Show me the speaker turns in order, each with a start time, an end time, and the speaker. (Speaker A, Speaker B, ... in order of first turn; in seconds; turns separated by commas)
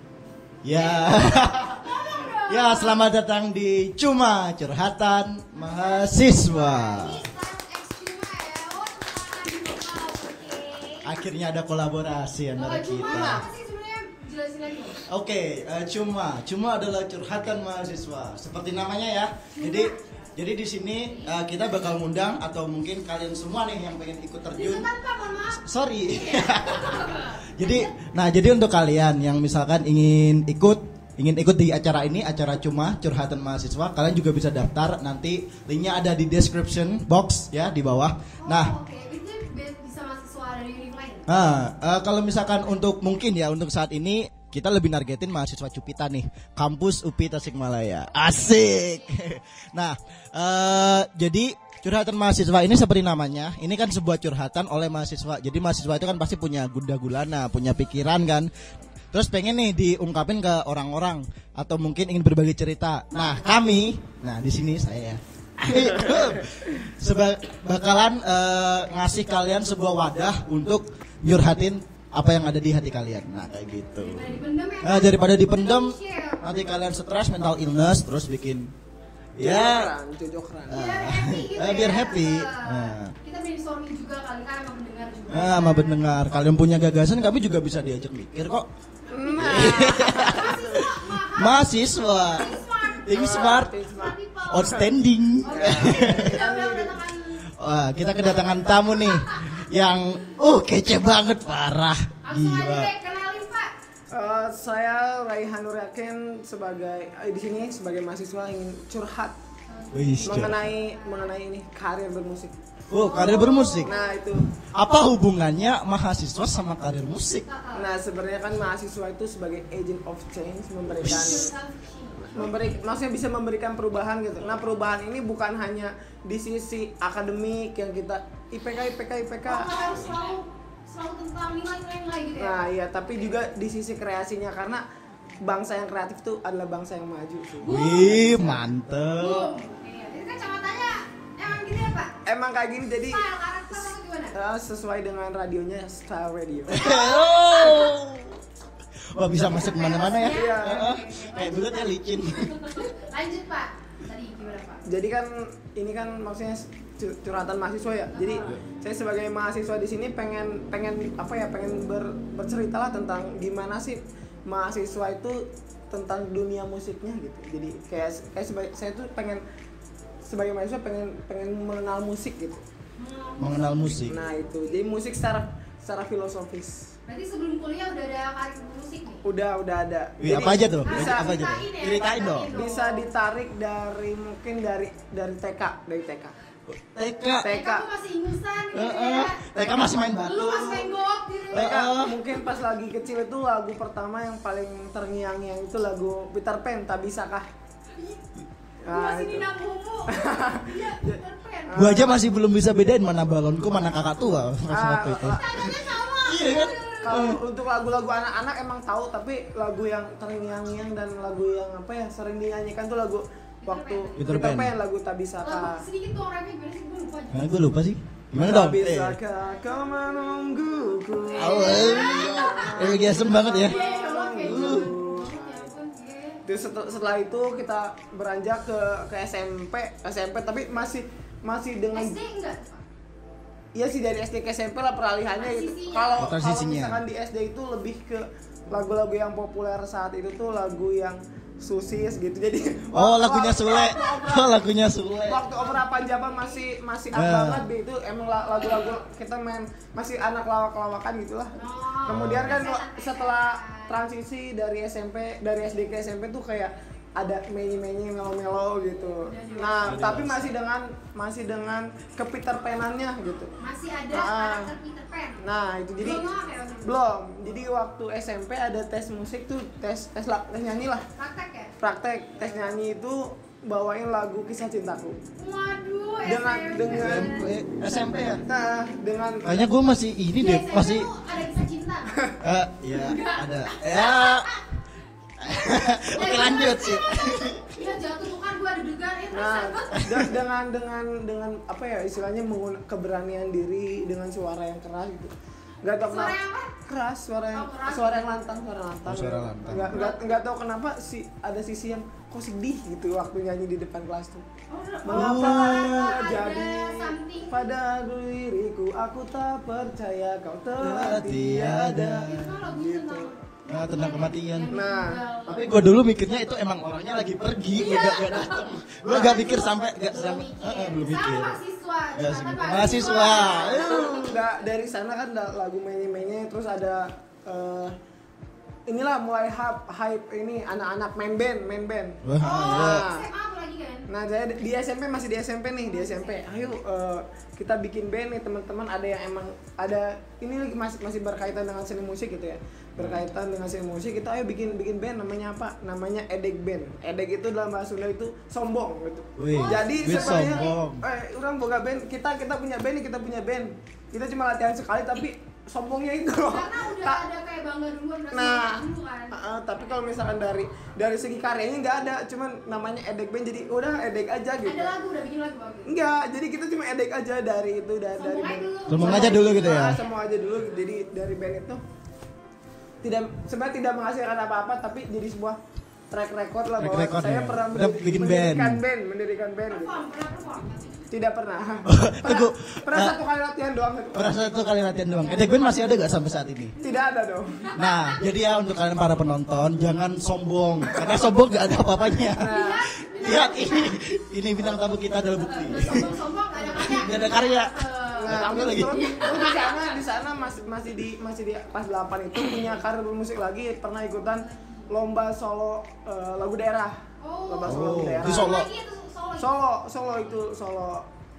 Speaker A: 0.6-7.2, Speaker B: 0.7-3.0, Speaker B: 5.5-11.2, Speaker A: 11.0-13.4, Speaker B: 12.5-15.0, Speaker A: 15.1-24.9, Speaker B: 19.5-20.3, Speaker B: 20.9-21.4, Speaker B: 24.5-27.9, Speaker A: 25.5-38.7, Speaker B: 38.4-41.3, Speaker A: 41.3-58.5, Speaker B: 48.8-49.0, Speaker A: 59.1-78.7, Speaker B: 74.0-76.4, Speaker A: 79.4-79.9, Speaker C: 79.4-80.9, Speaker A: 80.7-83.1, Speaker B: 80.7-86.1, Speaker A: 85.3-88.7, Speaker C: 89.1-90.8, Speaker B: 89.1-94.9, Speaker A: 89.3-96.4, Speaker C: 93.0-94.2, Speaker B: 95.4-97.4, Speaker C: 95.4-97.0, Speaker A: 97.6-102.9, Speaker B: 98.4-100.1, Speaker B: 102.2-103.7, Speaker C: 104.1-109.3, Speaker B: 109.7-111.3, Speaker A: 109.9-110.7, Speaker C: 110.2-112.5, Speaker A: 112.9-113.9, Speaker B: 112.9-114.2, Speaker C: 113.8-114.5, Speaker A: 114.6-117.5, Speaker B: 117.4-118.0, Speaker C: 117.7-121.5, Speaker B: 121.0-122.8, Speaker A: 121.0-121.4, Speaker C: 122.2-129.7, Speaker B: 129.4-133.3, Speaker C: 132.4-134.8, Speaker C: 135.4-137.7, Speaker B: 137.6-138.7, Speaker A: 137.6-139.5, Speaker B: 139.2-142.1, Speaker C: 142.2-146.9, Speaker B: 143.1-144.3, Speaker A: 146.7-148.4, Speaker B: 146.8-147.9, Speaker A: 149.1-152.9, Speaker B: 149.4-154.8, Speaker C: 150.3-150.8, Speaker C: 154.8-169.4, Speaker B: 158.1-158.6, Speaker C: 170.2-172.6, Speaker B: 173.0-174.9, Speaker A: 173.4-174.2, Speaker C: 174.1-176.9, Speaker B: 177.1-179.2, Speaker C: 179.2-181.4, Speaker A: 180.2-182.5, Speaker B: 180.8-183.1, Speaker C: 182.5-186.3, Speaker A: 186.7-187.5, Speaker C: 187.4-187.9, Speaker B: 187.4-191.7, Speaker A: 188.7-190.9, Speaker C: 191.5-197.4, Speaker A: 191.5-192.2, Speaker C: 198.8-199.5, Speaker B: 198.9-201.8, Speaker C: 200.1-202.2, Speaker A: 201.8-207.4, Speaker C: 204.7-205.5, Speaker B: 205.2-207.3, Speaker C: 207.0-215.8, Speaker B: 213.6-214.5, Speaker A: 214.2-214.7, Speaker B: 215.4-217.5, Speaker A: 217.3-219.2, Speaker C: 218.3-225.7, Speaker B: 221.2-226.4, Speaker A: 221.3-223.8, Speaker A: 224.3-224.9, Speaker C: 226.4-232.2, Speaker B: 231.9-232.8, Speaker C: 233.7-244.6, Speaker B: 235.3-236.3, Speaker A: 236.2-237.0, Speaker A: 242.9-245.5, Speaker B: 243.8-244.1, Speaker C: 245.3-263.5, Speaker B: 245.5-246.6, Speaker A: 247.1-247.7, Speaker B: 248.5-248.9, Speaker B: 251.5-254.0, Speaker A: 252.1-252.6, Speaker B: 259.2-260.0, Speaker A: 259.8-260.5, Speaker B: 263.6-265.4, Speaker C: 264.1-264.7, Speaker C: 265.4-266.2, Speaker B: 266.0-267.0, Speaker C: 266.8-271.0, Speaker B: 271.1-271.7, Speaker C: 271.8-275.2, Speaker B: 275.4-277.5, Speaker C: 276.2-277.4, Speaker A: 276.9-278.4, Speaker C: 278.4-279.6, Speaker A: 279.4-281.1, Speaker B: 280.4-282.2, Speaker A: 282.4-284.5, Speaker B: 282.9-284.6, Speaker A: 285.4-287.8, Speaker B: 285.6-290.2, Speaker C: 289.3-304.4, Speaker B: 296.1-296.7, Speaker B: 297.5-298.5, Speaker A: 299.1-300.0, Speaker B: 299.9-300.4, Speaker B: 304.7-307.7, Speaker C: 305.0-313.3, Speaker A: 305.1-306.2, Speaker A: 310.8-312.7, Speaker B: 312.3-315.6, Speaker A: 313.7-314.7, Speaker C: 314.7-315.2, Speaker A: 315.4-321.6, Speaker B: 317.7-324.5, Speaker C: 319.1-319.5, Speaker A: 322.1-324.2, Speaker C: 323.2-327.9, Speaker C: 328.9-333.2, Speaker A: 332.2-333.1, Speaker B: 332.4-334.1, Speaker C: 334.1-357.2, Speaker B: 335.8-336.4, Speaker A: 343.0-343.2, Speaker A: 349.4-351.0, Speaker B: 349.5-350.8, Speaker B: 356.4-359.4, Speaker C: 358.3-364.9, Speaker B: 364.6-365.9, Speaker C: 365.9-371.8, Speaker B: 368.1-370.1, Speaker A: 368.9-370.0, Speaker C: 373.0-375.6, Speaker C: 376.1-380.0, Speaker A: 376.8-378.8, Speaker B: 379.7-381.1, Speaker C: 381.1-384.6, Speaker A: 381.9-383.1, Speaker A: 384.1-386.7, Speaker B: 385.2-385.9, Speaker B: 386.7-388.2, Speaker C: 386.8-387.7, Speaker A: 387.8-392.5, Speaker C: 390.9-391.3, Speaker C: 392.4-392.9, Speaker B: 392.4-393.9, Speaker A: 393.1-399.0, Speaker B: 395.4-400.0, Speaker C: 398.1-408.5, Speaker B: 404.2-404.9, Speaker B: 407.2-409.6, Speaker A: 407.6-408.7, Speaker C: 409.4-411.0